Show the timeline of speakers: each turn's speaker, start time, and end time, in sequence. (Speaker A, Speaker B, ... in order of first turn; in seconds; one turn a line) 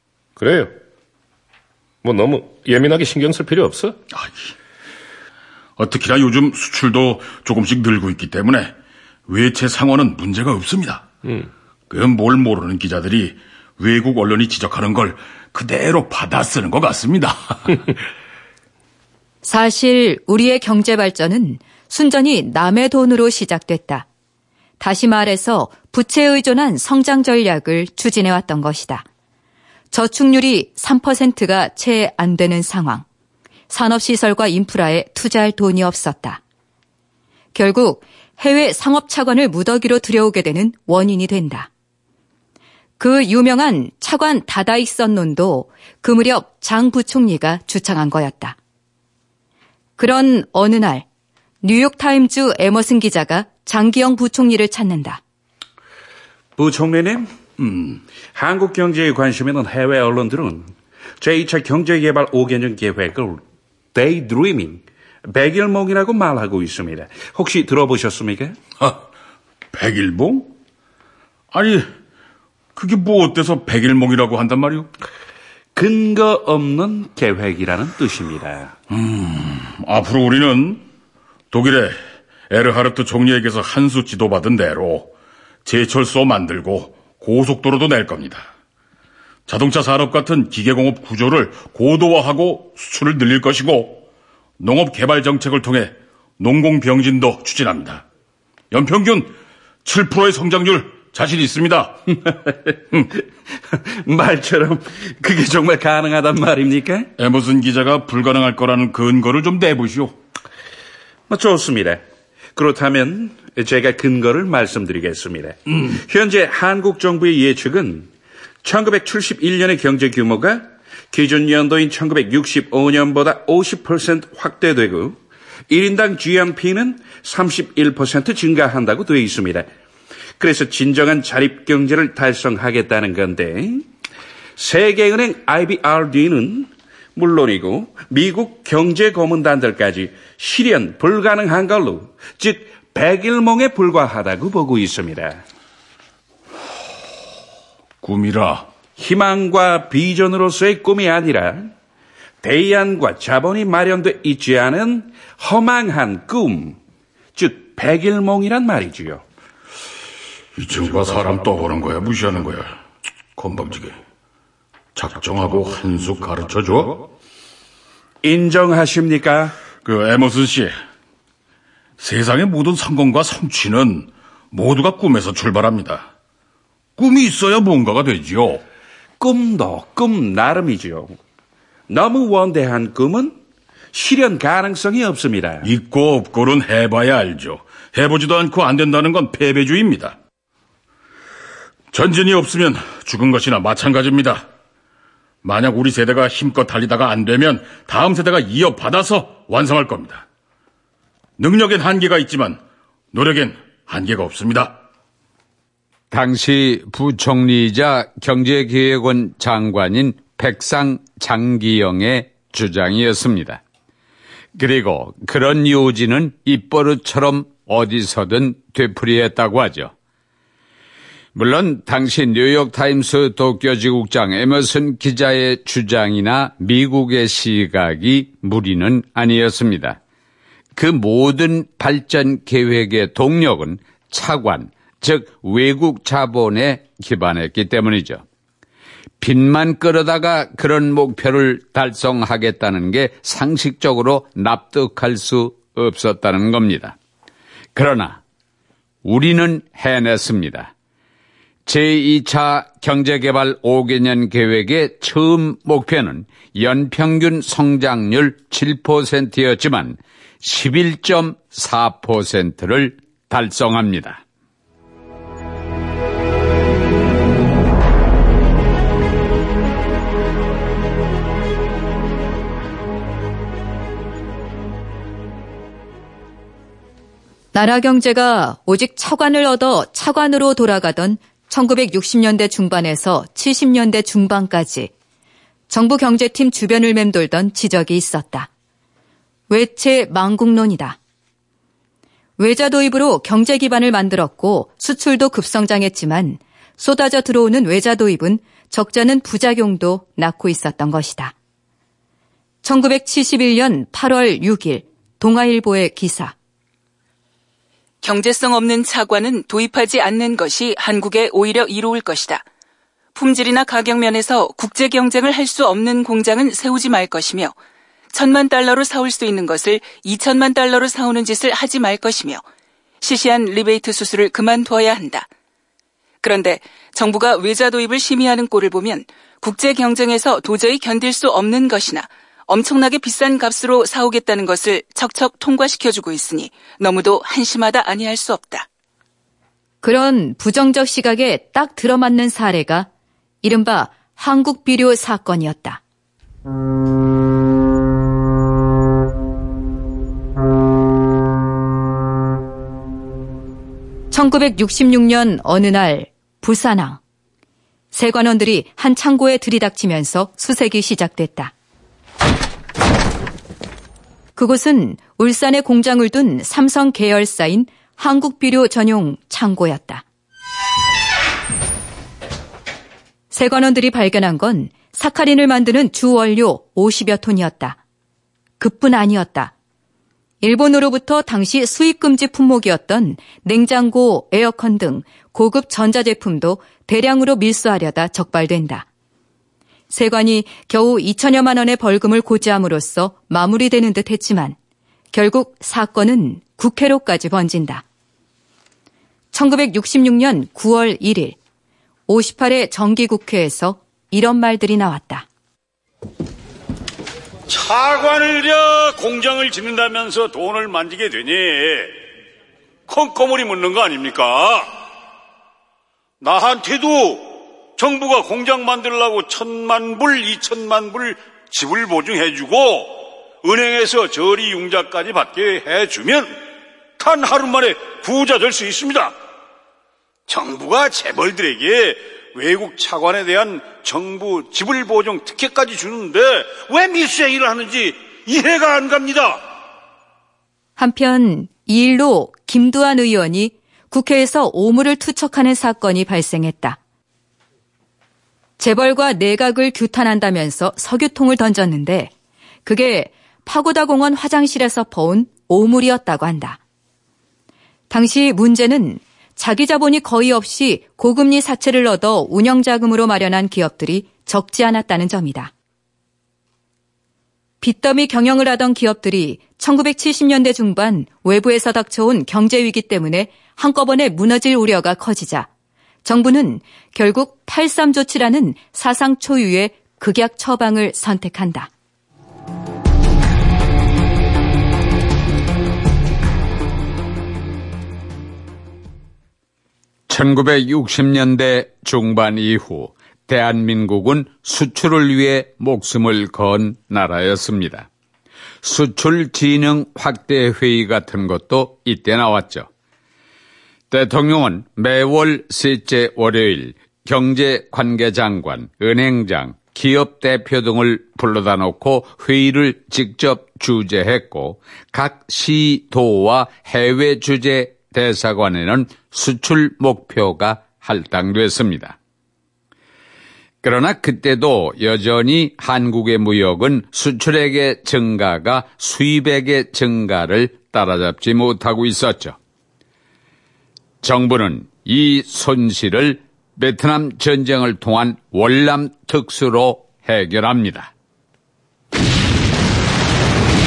Speaker A: 0.4-0.7
Speaker A: 2.0-4.0
Speaker B: 4.1-4.5
Speaker B: 5.8-8.7
Speaker B: 9.3-11.1
Speaker A: 11.2-11.5
Speaker B: 11.9-17.8
Speaker C: 19.4-24.1
Speaker C: 24.8-29.0
Speaker C: 29.9-33.0
Speaker C: 33.7-36.4
Speaker C: 37.5-41.7
Speaker C: 43.0-48.6
Speaker C: 50.0-51.0
Speaker C: 51.6-55.2
Speaker D: 56.6-63.4
Speaker D: 63.9-68.6
Speaker B: 69.7-70.5
Speaker B: 71.5-71.9
Speaker B: 72.8-74.9
Speaker D: 75.8-78.7
Speaker B: 78.9-80.8
Speaker B: 81.5-82.0
Speaker B: 82.5-85.1
Speaker B: 85.6-88.5
Speaker B: 89.5-94.0
Speaker B: 94.6-98.0
Speaker B: 98.7-99.3
Speaker B: 99.8-102.0
Speaker D: 103.7-107.1
Speaker B: 107.2-110.2
Speaker D: 111.3-112.0
Speaker D: 112.5-118.1
Speaker D: 118.6-125.2
Speaker D: 125.7-129.7
Speaker D: 130.4-133.8
Speaker D: 134.6-145.4
Speaker B: 148.0-148.7
Speaker D: 149.0-151.7
Speaker D: 152.4-156.8
Speaker D: 157.3-159.2
Speaker B: 160.6-162.7
Speaker B: 163.3-164.0
Speaker B: 164.9-167.1
Speaker D: 168.2-169.5
Speaker B: 169.8-170.7
Speaker B: 172.0-176.1
Speaker B: 177.0-178.6
Speaker D: 179.2-181.2
Speaker D: 181.9-183.4
Speaker D: 183.9-185.7
Speaker B: 185.6-190.2
Speaker B: 191.9-194.4
Speaker B: 195.4-200.2
Speaker B: 201.4-202.6
Speaker B: 203.1-204.8
Speaker E: 206.1-213.6
Speaker E: 214.5-219.9
Speaker E: 221.3-230.0
Speaker E: 230.7-238.2
Speaker E: 239.2-246.9
Speaker E: 247.7-248.2
Speaker E: 249.0-250.7
Speaker E: 251.7-264.2
Speaker C: 277.5-284.9
Speaker C: 285.7-288.5
Speaker C: 289.5-291.0
Speaker C: 292.4-301.3
Speaker C: 302.6-306.3
Speaker F: 308.0-312.4
Speaker F: 313.1-317.5
Speaker F: 318.1-322.4
Speaker F: 323.0-325.3
Speaker F: 326.2-338.7
Speaker C: 339.8-342.9
Speaker C: 343.4-345.8
Speaker C: 354.1-357.0
Speaker C: 357.9-361.5
Speaker C: 364.4-370.0
Speaker C: 373.3-377.8
Speaker C: 378.6-379.5
Speaker C: 380.4-388.9
Speaker C: 389.9-394.6
Speaker C: 395.1-397.8
Speaker C: 399.3-401.4
Speaker C: 402.1-405.2
Speaker G: 407.5-411.9
Speaker G: 412.9-414.7
Speaker G: 416.2-426.4
Speaker G: 427.0-429.1
Speaker G: 430.3-439.4
Speaker C: 440.8-446.8
Speaker C: 448.6-452.1
Speaker C: 452.6-456.6
Speaker C: 457.9-465.5
Speaker C: 467.6-475.5
Speaker C: 476.0-481.7
Speaker E: 490.1-497.9
Speaker E: 498.6-502.7
Speaker E: 503.9-522.0
Speaker E: 523.6-532.4
Speaker E: 534.0-540.9